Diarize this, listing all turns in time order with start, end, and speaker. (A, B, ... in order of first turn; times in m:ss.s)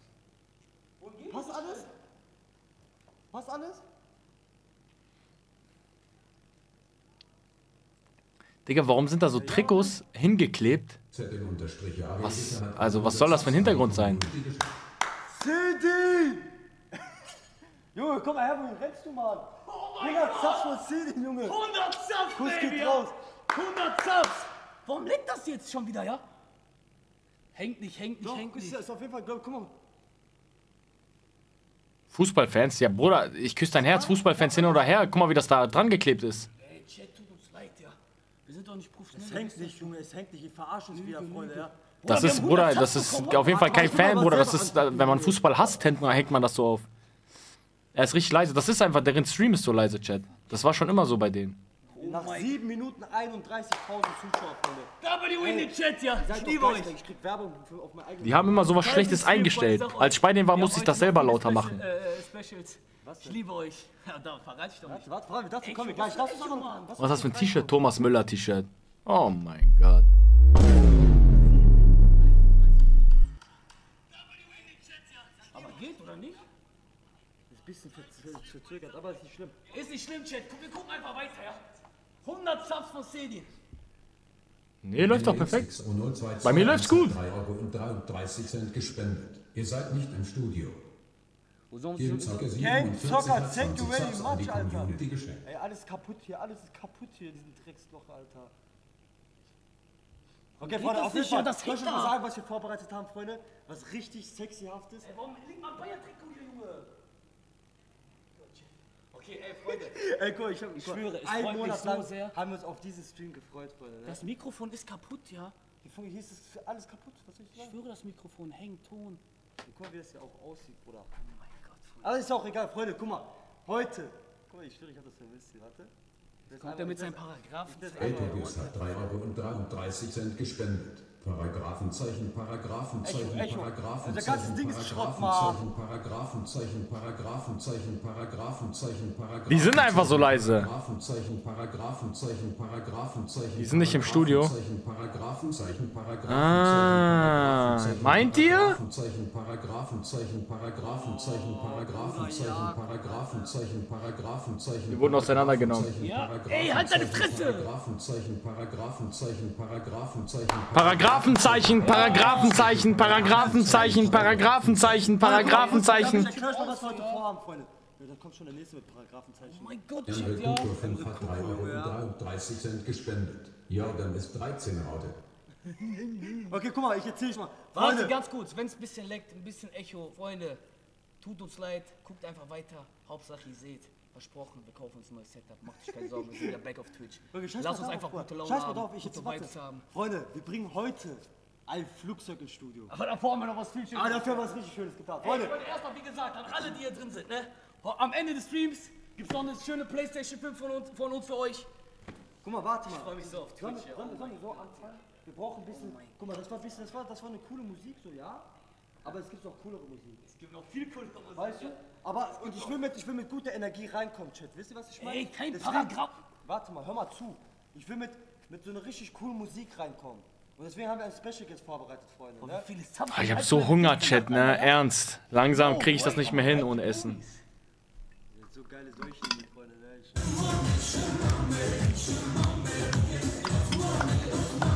0:01.0-0:01.9 A
0:01.3-0:01.9 B
0:03.3-0:03.8 B
0:08.6-0:11.0 C
0:09.4-0:09.9 B
0:11.1-0:14.7 D
0:12.2-0:14.2 C
0:15.3-0:16.5 B
0:17.9-0:21.6 B
0:19.6-0:20.7 A
0:21.4-0:26.2 A
0:22.3-0:23.1 B
0:27.5-0:28.8 A
0:28.2-0:29.7 B
0:32.1-0:36.5 C
0:33.8-0:34.9 A
0:34.2-0:34.6 B
0:36.6-0:39.9 A
0:39.1-0:41.8 B
0:40.9-0:44.5 A
0:42.1-0:46.8 C
0:43.6-0:45.8 B
0:47.9-0:51.6 C
0:51.8-0:52.6 A
0:52.0-0:58.9 B
0:55.0-0:56.9 A
0:58.2-1:01.8 C
0:58.7-1:05.1 A
1:03.0-1:03.4 B
1:04.8-1:07.8 B
1:05.6-1:07.0 A
1:07.0-1:10.1 C
1:15.3-1:16.4 A
1:17.5-1:19.6 B
1:19.7-1:23.5 A
1:24.8-1:25.7 C
1:25.0-1:30.8 D
1:26.4-1:27.2 C
1:31.7-1:32.6 A
1:32.0-1:35.4 D
1:32.5-1:38.5 B
1:40.6-1:45.1 B
1:40.6-1:42.2 A
1:45.0-1:46.9 A
1:48.3-1:50.0 A
1:49.7-1:54.2 B
1:50.7-1:52.4 A
1:54.0-1:55.6 A
1:55.8-1:57.8 B
1:57.6-1:59.2 A
1:59.6-2:01.1 B
2:01.1-2:02.2 A
2:02.0-2:05.9 B
2:06.5-2:08.7 A
2:06.5-2:08.8 B
2:08.0-2:45.2 D
2:13.0-2:15.6 B
2:19.5-2:20.7 C
2:23.6-2:24.5 C
2:26.3-2:28.8 C
2:30.9-2:33.5 B
2:34.9-2:35.9 C
2:36.0-2:37.7 A
2:40.7-2:46.3 C
2:41.8-2:43.6 A
2:45.2-2:49.7 B
2:45.2-2:47.2 A
2:49.4-2:50.9 A
2:50.0-2:55.2 D
2:50.6-2:52.0 B
2:55.9-2:56.5 A
2:56.4-2:58.2 B
2:57.7-3:00.6 A
3:01.2-3:09.8 A
3:06.0-3:06.5 B
3:07.3-3:12.9 B
3:12.9-3:14.5 A
3:13.9-3:15.6 B
3:15.2-3:21.7 A
3:22.4-3:28.5 B
3:22.8-3:25.0 A
3:25.7-3:26.2 A
3:29.0-3:30.2 B
3:30.2-3:32.8 A
3:31.4-3:42.7 B
3:35.0-3:36.2 A
3:42.4-3:44.8 A
3:43.1-3:47.2 C
3:45.4-3:47.4 A
3:48.3-3:50.4 B
3:50.6-3:51.2 A
3:53.3-3:54.2 A